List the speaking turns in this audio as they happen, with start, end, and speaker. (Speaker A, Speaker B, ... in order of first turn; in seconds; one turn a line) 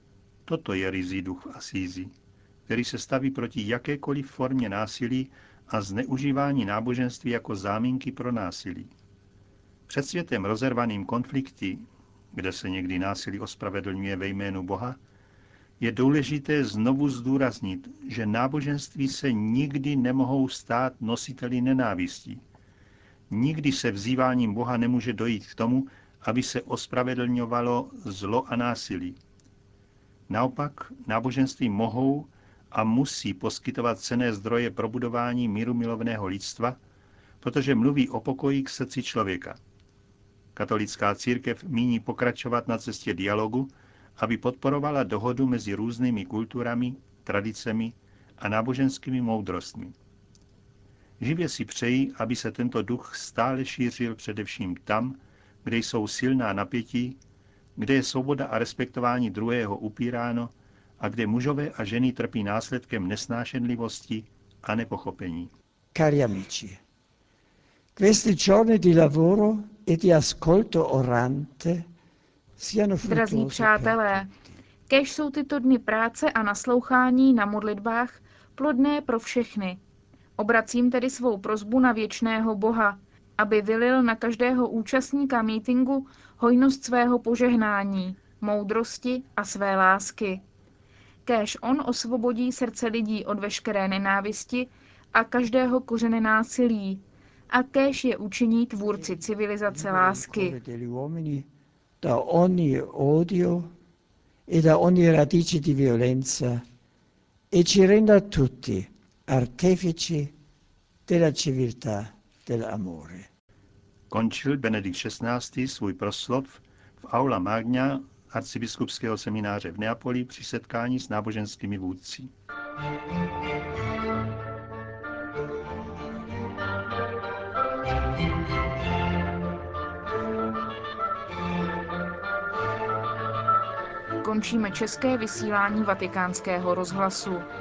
Speaker A: 0.5-2.1
Speaker A: 2.7-8.9
Speaker A: 9.9-15.0
Speaker A: 15.8-22.4
Speaker A: 23.3-29.2
Speaker A: 30.3-36.8
Speaker A: 37.4-39.6
Speaker A: 40.5-49.9
Speaker A: 51.2-57.2
Speaker A: 57.8-65.5
Speaker B: 65.9-66.8
Speaker B: 68.0-71.8
Speaker B: 72.6-74.1
Speaker C: 73.0-74.3
Speaker C: 74.9-79.8
Speaker C: 80.4-90.4
Speaker C: 91.2-100.5
Speaker B: 99.0-101.5
Speaker B: 102.0-103.7
Speaker B: 104.5-106.6
Speaker B: 107.5-110.3
Speaker B: 111.1-113.3
Speaker A: 114.1-122.3
Speaker C: 134.2-137.5